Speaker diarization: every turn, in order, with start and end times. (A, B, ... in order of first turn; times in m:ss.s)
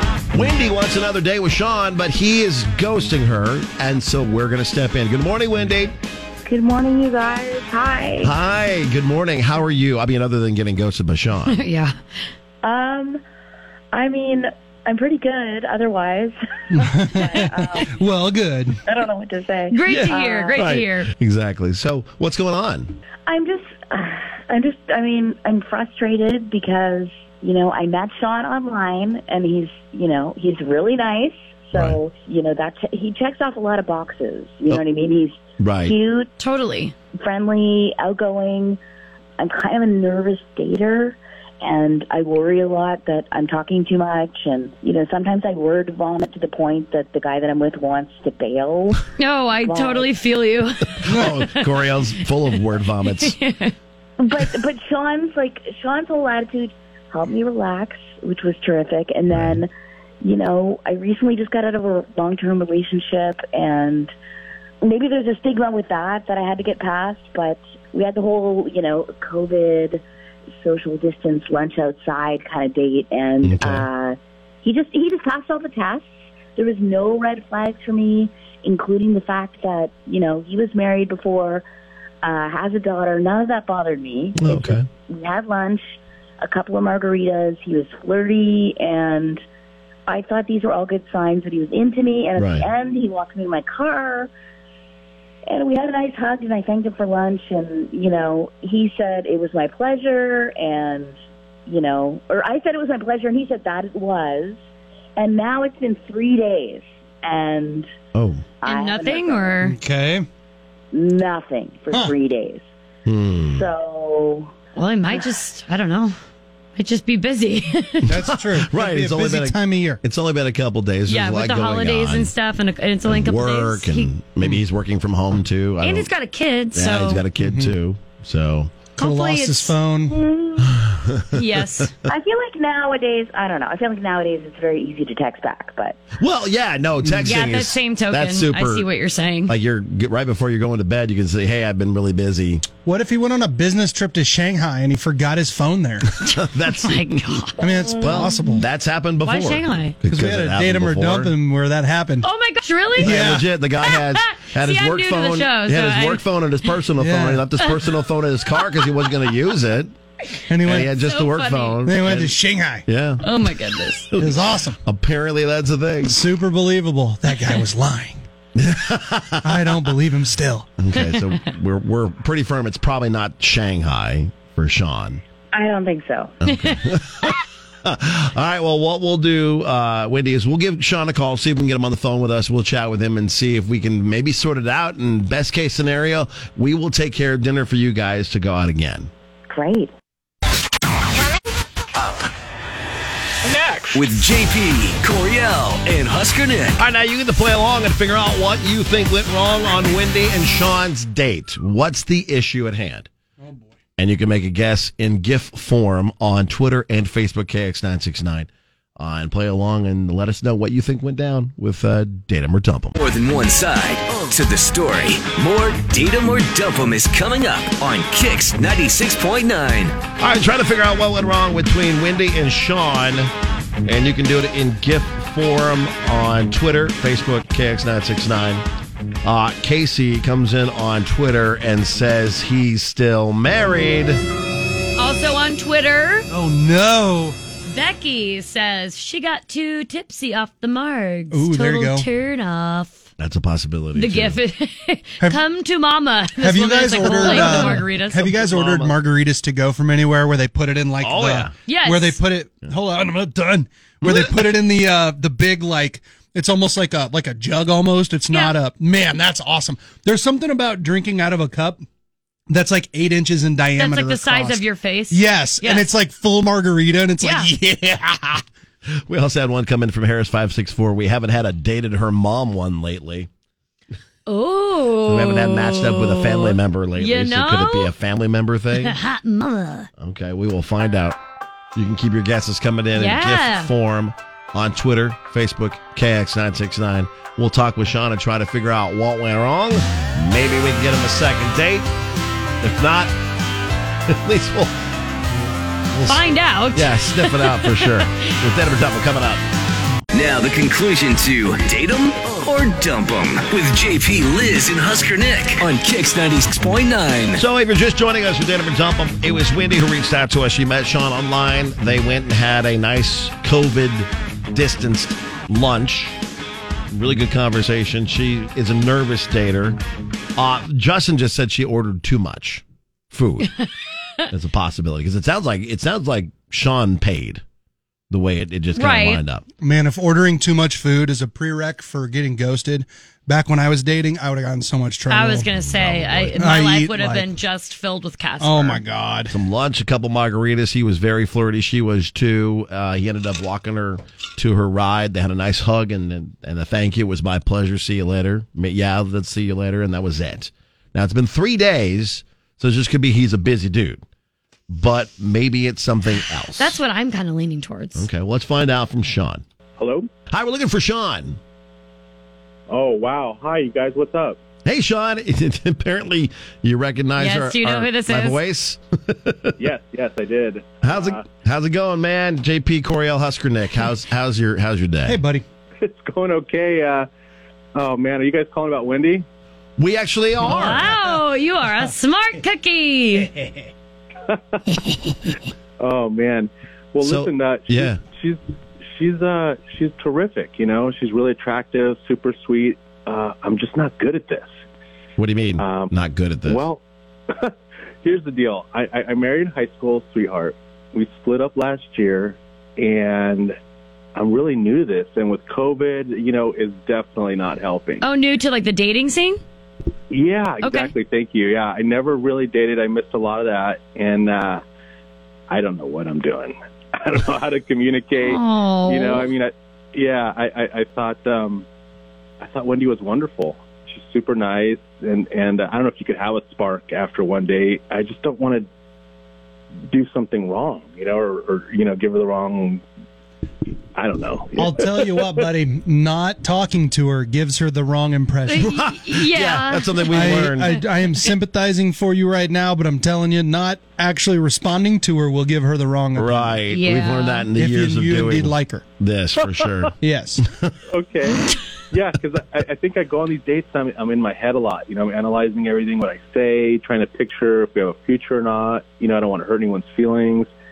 0:00.3-0:05.9 A
0:06.4-0:08.3 B
0:08.2-0:11.6 A
0:11.4-0:12.0 C
0:12.6-0:13.2 B
0:13.9-0:17.9 B
0:16.7-0:18.8 D
0:18.8-0:20.6 B
0:19.7-0:21.1 C
0:19.8-0:22.9 A
0:23.3-0:36.3 B
0:31.7-0:32.0 A
0:35.6-0:35.9 A
0:36.4-0:36.9 C
0:37.2-0:38.8 B
0:39.4-0:49.1 B
0:49.2-0:51.9 C
0:49.6-0:50.1 B
0:51.0-0:53.4 A
0:53.0-0:53.7 C
0:54.2-0:59.7 B
0:59.3-0:59.6 A
1:00.2-1:04.1 B
1:04.8-1:10.0 B
1:10.6-1:21.6 B
1:13.4-1:13.9 A
1:22.2-1:29.4 B
1:24.4-1:24.8 A
1:30.1-1:34.3 B
1:32.4-1:32.7 A
1:35.5-1:41.2 B
1:41.7-1:44.6 B
1:45.2-1:47.9 B
1:48.1-1:48.4 A
1:48.6-1:49.6 B
1:48.6-1:49.8 C
1:49.6-1:50.2 D
1:50.9-1:52.6 B
1:53.0-1:53.6 A
1:53.5-1:54.5 B
1:54.8-1:56.1 C
1:56.8-1:58.1 C
1:58.0-2:00.0 D
1:58.2-2:02.3 A
2:01.0-2:04.6 C
2:03.0-2:06.1 A
2:05.8-2:07.2 C
2:06.7-2:08.8 A
2:07.4-2:07.7 D
2:09.0-2:10.2 D
2:09.0-2:09.7 C
2:10.1-2:10.7 B
2:10.7-2:11.9 A
2:11.3-2:11.9 C
2:12.0-2:16.0 B
2:16.2-2:18.9 A
2:17.0-2:17.4 D
2:17.2-2:19.6 C
2:19.5-2:22.7 A
2:22.8-2:26.2 D
2:26.1-2:27.4 A
2:26.7-2:27.6 C
2:27.6-2:28.7 D
2:28.0-2:31.3 A
2:29.2-2:30.0 C
2:30.1-2:32.3 D
2:32.2-2:33.2 C
2:33.0-2:33.5 D
2:33.0-2:39.9 A
2:33.8-2:36.8 C
2:37.0-2:37.5 D
2:37.6-2:37.9 C
2:38.6-2:39.1 C
2:40.3-2:41.8 C
2:40.5-2:41.0 D
2:40.6-2:43.3 A
2:41.8-2:42.8 D
2:43.2-2:44.1 C
2:44.1-2:46.2 A
2:44.2-2:44.8 D
2:46.0-2:48.2 D
2:48.5-2:49.7 A
2:49.4-2:50.7 D
2:50.8-2:55.2 A
2:55.5-2:56.4 B
2:56.4-3:09.1 A
3:09.5-3:09.9 B
3:13.5-3:14.0 E
3:13.9-3:16.8 F
3:16.8-3:23.1 A
3:24.0-3:28.5 A
3:29.0-3:32.9 A
3:33.0-3:40.0 F
3:40.2-3:43.3 A
3:43.8-3:48.6 A
3:49.2-3:54.2 A
3:55.0-3:56.3 C
3:56.3-3:57.4 D
3:57.6-4:03.1 C
4:01.3-4:02.1 D
4:03.2-4:04.4 A
4:03.9-4:08.5 C
4:06.4-4:21.8 D
4:07.1-4:07.9 A
4:08.5-4:08.9 A
4:11.0-4:11.5 A
4:11.6-4:12.2 C
4:14.0-4:14.5 A
4:18.3-4:18.6 C
4:22.5-4:28.4 D
4:23.8-4:25.9 C
4:27.2-4:27.5 C
4:28.9-4:33.3 A
4:34.2-4:37.9 C
4:35.0-4:39.0 A
4:38.7-4:39.9 C
4:40.0-4:41.2 A
4:41.8-4:51.9 A
4:42.9-4:43.7 C
4:52.6-4:53.1 A
4:54.1-4:54.7 A
4:55.9-4:59.4 A
4:56.0-4:58.2 C
5:00.1-5:07.4 F
5:07.3-5:16.1 A
5:16.9-5:19.8 A
5:20.4-5:23.5 A
5:24.3-5:27.4 A
5:28.1-5:29.4 A
5:28.7-5:29.2 C
5:29.6-5:35.6 D
5:35.1-5:38.8 C
5:35.6-5:36.4 A
5:36.4-5:37.3 D
5:38.4-5:39.4 D
5:39.3-5:54.0 A
5:54.7-5:56.8 A
5:56.5-5:58.1 C
5:58.0-5:59.4 A
5:59.8-6:00.1 E
6:00.3-6:01.4 A
6:02.7-6:04.4 E
6:04.6-6:09.5 A
6:07.2-6:08.4 C
6:09.6-6:11.2 E
6:10.8-6:15.2 A
6:15.0-6:15.4 D
6:15.8-6:17.1 E
6:17.7-6:19.2 E
6:19.8-6:20.9 A
6:20.4-6:23.3 C
6:24.2-6:25.1 E
6:25.8-6:34.5 E
6:27.0-6:28.0 A
6:35.2-6:36.6 A
6:35.6-6:35.9 E
6:36.4-6:43.6 E
6:44.2-6:48.0 E
6:48.0-6:49.4 C
6:50.1-6:54.6 E
6:50.6-6:50.9 C
6:55.5-7:01.6 E
6:58.2-6:59.3 C
7:02.4-7:08.6 E
7:09.9-7:12.8 E
7:14.0-7:15.4 E
7:14.5-7:18.8 D
7:18.4-7:21.3 C
7:18.6-7:20.8 A
7:20.1-7:26.6 D
7:26.2-7:29.9 A
7:26.7-7:27.5 C
7:27.5-7:28.8 D
7:29.4-7:29.9 E
7:30.0-7:30.4 D
7:30.9-7:40.5 E